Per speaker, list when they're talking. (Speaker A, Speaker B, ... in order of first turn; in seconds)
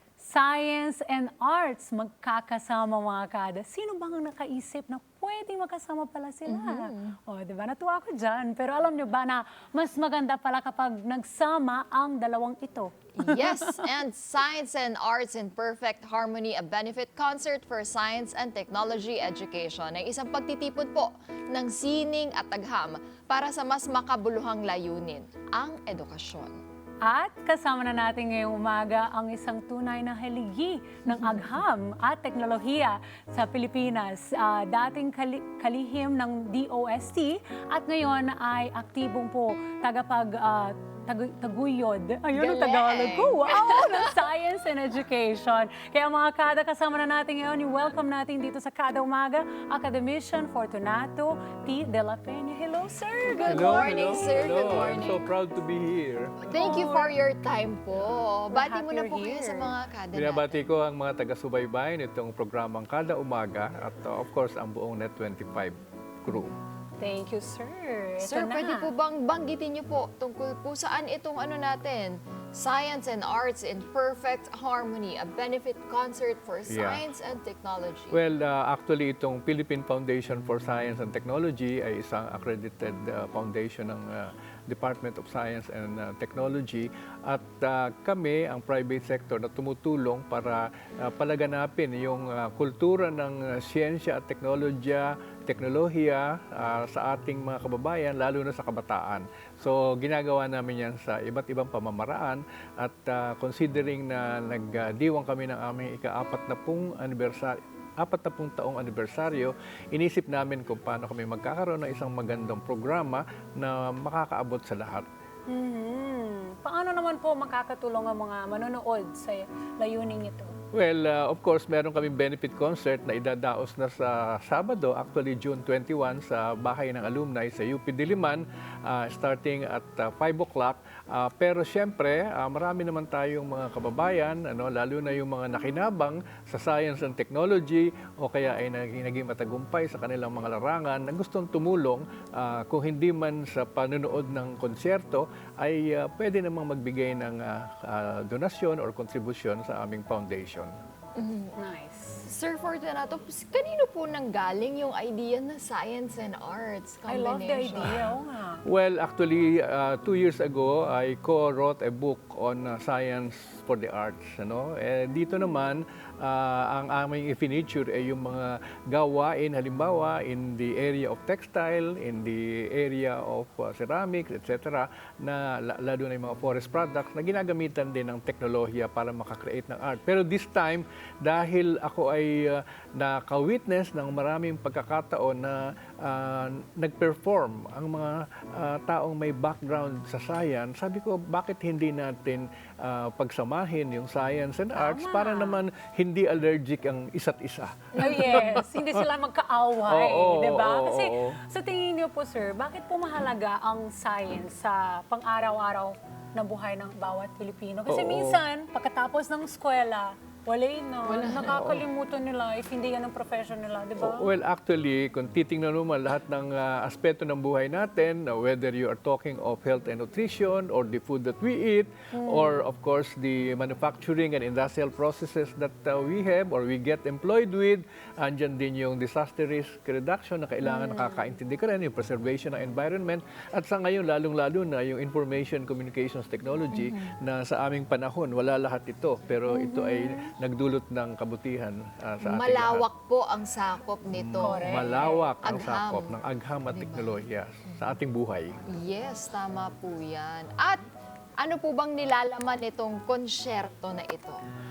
Speaker A: 0.2-13.8, 27.0-55.1, 56.5-57.1, 58.5-59.7, 67.0-68.9, 115.5-120.5, 151.6-152.2, 157.1-158.6, 194.7-195.6, 197.9-214.3, 222.1-222.6, 239.5-240.3, 244.4-245.2
Speaker B: 6.5-7.2, 13.2-26.6, 31.1-31.6, 42.3-44.1, 53.3-55.2, 56.4-60.6, 68.2-78.2, 151.2-151.5, 152.2-158.0, 211.0-211.6, 236.7-237.1, 242.2-246.2, 246.7-247.2, 248.7-250.8, 251.4-254.4
Speaker C: 53.5-56.5, 60.1-66.5, 76.7-77.0, 78.1-115.1, 120.7-150.7, 158.7-199.1, 199.9-201.4, 207.9-208.4, 211.4-211.8, 214.0-242.8, 244.1-248.6